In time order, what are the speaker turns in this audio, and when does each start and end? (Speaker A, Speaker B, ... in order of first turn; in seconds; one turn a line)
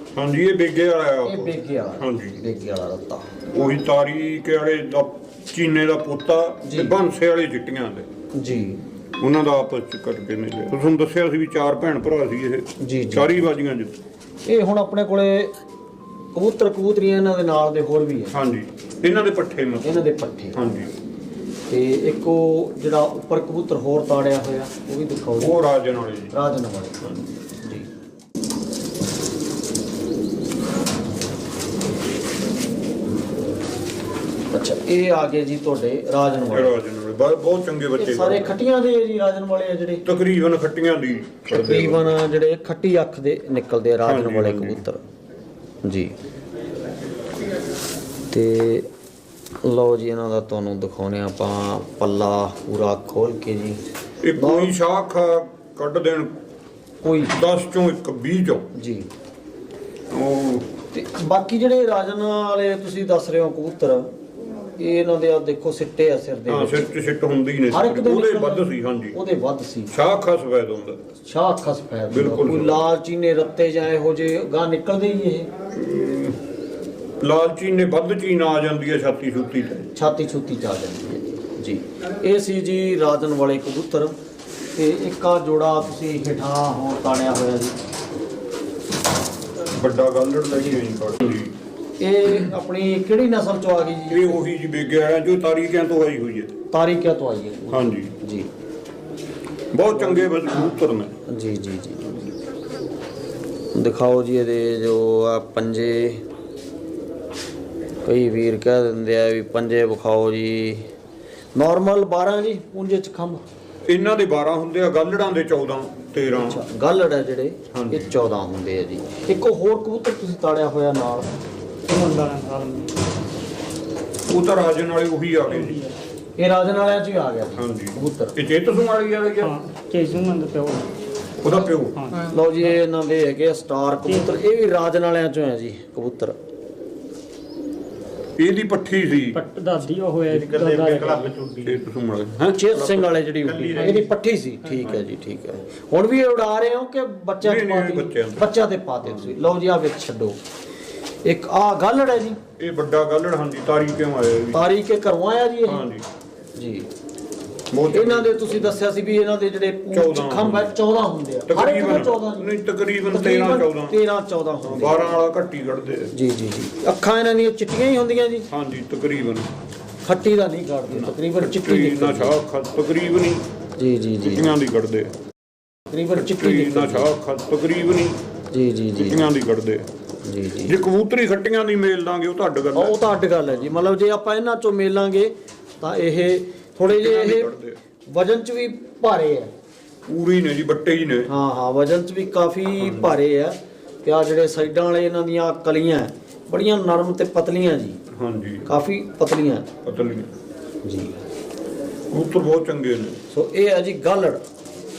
Speaker A: 0.1-2.4
Speaker B: 1.2-3.3
Speaker A: 3.5-8.1
Speaker B: 6.6-6.9
Speaker B: 8.3-8.8
Speaker A: 9.2-13.9
Speaker B: 12.8-13.4
Speaker B: 14.4-15.5
Speaker B: 16.3-18.3
Speaker A: 18.3-20.0
Speaker B: 19.8-20.6
Speaker A: 20.5-20.9
Speaker B: 21.7-25.6
Speaker A: 25.4-26.4
Speaker B: 26.3-27.0
Speaker B: 27.6-27.9
Speaker B: 34.5-36.8
Speaker A: 36.5-38.5
Speaker B: 38.0-40.0
Speaker A: 40.0-42.1
Speaker B: 41.5-45.0
Speaker A: 44.0-44.8
Speaker B: 45.8-46.1
Speaker B: 48.3-48.9
Speaker B: 49.6-53.8
Speaker A: 54.2-56.3
Speaker B: 54.4-54.7
Speaker B: 57.0-57.3
Speaker A: 57.3-58.7
Speaker B: 58.7-59.1
Speaker A: 60.1-60.7
Speaker B: 60.9-64.1
Speaker B: 64.8-66.9
Speaker A: 66.5-69.2
Speaker B: 67.7-69.9
Speaker A: 69.9-71.0
Speaker B: 71.2-75.5
Speaker A: 72.1-72.8
Speaker A: 75.7-76.4
Speaker A: 77.2-79.8
Speaker B: 79.9-84.1
Speaker B: 84.7-87.8
Speaker A: 89.7-91.5
Speaker B: 92.0-94.4
Speaker A: 94.1-96.5
Speaker B: 96.7-98.5
Speaker A: 97.7-98.1
Speaker A: 99.7-101.2
Speaker B: 99.9-100.7
Speaker B: 101.3-102.2
Speaker B: 103.7-106.2
Speaker B: 108.0-110.9
Speaker B: 111.5-113.4
Speaker A: 113.9-116.6
Speaker B: 116.3-121.3
Speaker A: 117.7-118.1
Speaker C: 121.9-123.0
Speaker A: 124.3-125.8
Speaker C: 125.5-126.0
Speaker B: 126.4-128.3
Speaker A: 127.6-129.5
Speaker C: 129.4-130.9
Speaker A: 131.4-132.0
Speaker C: 131.5-132.2
Speaker B: 132.3-136.3
Speaker C: 134.0-134.4
Speaker A: 138.4-139.4
Speaker C: 139.3-141.8
Speaker A: 140.3-144.1
Speaker B: 142.6-150.4
Speaker A: 147.4-148.5
Speaker B: 151.2-152.4
Speaker A: 152.6-154.6
Speaker B: 154.5-155.8
Speaker A: 155.7-156.1
Speaker B: 156.6-156.9
Speaker A: 157.7-158.7
Speaker B: 157.9-162.5
Speaker A: 159.9-160.7
Speaker A: 161.5-163.9
Speaker B: 163.1-165.2
Speaker A: 164.7-166.1
Speaker B: 166.1-168.5
Speaker A: 168.5-169.5
Speaker B: 170.1-172.4
Speaker A: 170.9-173.4
Speaker B: 173.8-174.5
Speaker A: 174.2-175.1
Speaker B: 175.9-177.1
Speaker A: 176.1-178.2
Speaker B: 178.5-179.3
Speaker A: 179.0-179.9
Speaker B: 180.2-180.8
Speaker A: 180.6-183.8
Speaker B: 182.7-187.5
Speaker A: 186.9-187.8
Speaker B: 188.1-189.5
Speaker A: 190.1-191.3
Speaker B: 191.3-198.0
Speaker A: 192.8-193.1
Speaker A: 198.1-198.7
Speaker B: 198.7-199.7
Speaker A: 199.8-200.3
Speaker B: 200.8-201.1
Speaker A: 202.1-203.2
Speaker B: 203.3-204.4